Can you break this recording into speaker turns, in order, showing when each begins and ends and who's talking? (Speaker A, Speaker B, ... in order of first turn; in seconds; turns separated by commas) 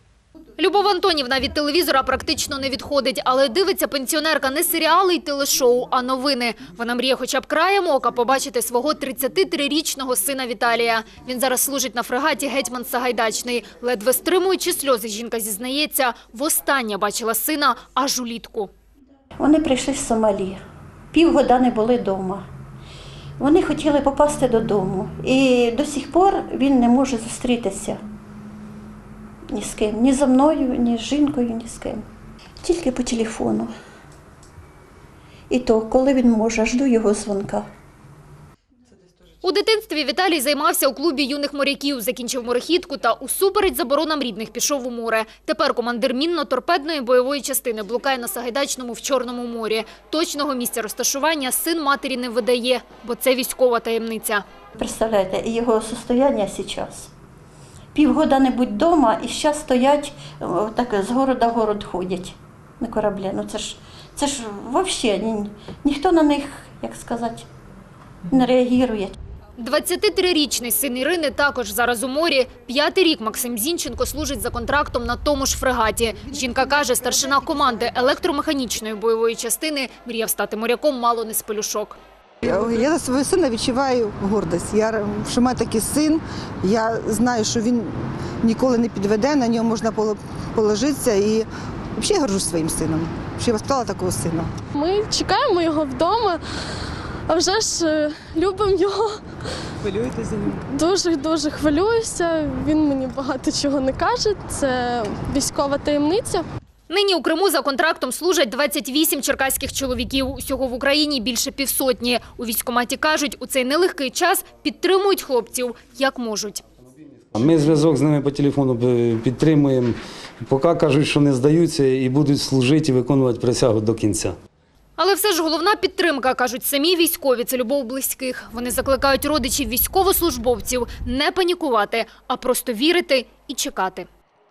Speaker A: 0.6-18.7, Speaker B: 19.4-20.6, Speaker B: 21.1-22.4, Speaker B: 23.4-28.0, Speaker B: 29.5-32.0, Speaker B: 32.6-33.7, Speaker B: 35.5-37.6, Speaker A: 39.4-54.4, Speaker B: 54.8-57.1, Speaker B: 57.9-67.5, Speaker B: 68.3-69.1, Speaker A: 69.6-82.0, Speaker C: 76.5-76.8, Speaker C: 82.4-94.5, Speaker D: 94.7-96.4, Speaker D: 97.3-99.2, Speaker C: 99.8-100.5, Speaker D: 100.7-106.4, Speaker A: 106.9-116.6, Speaker E: 117.3-124.3, Speaker A: 125.0-134.1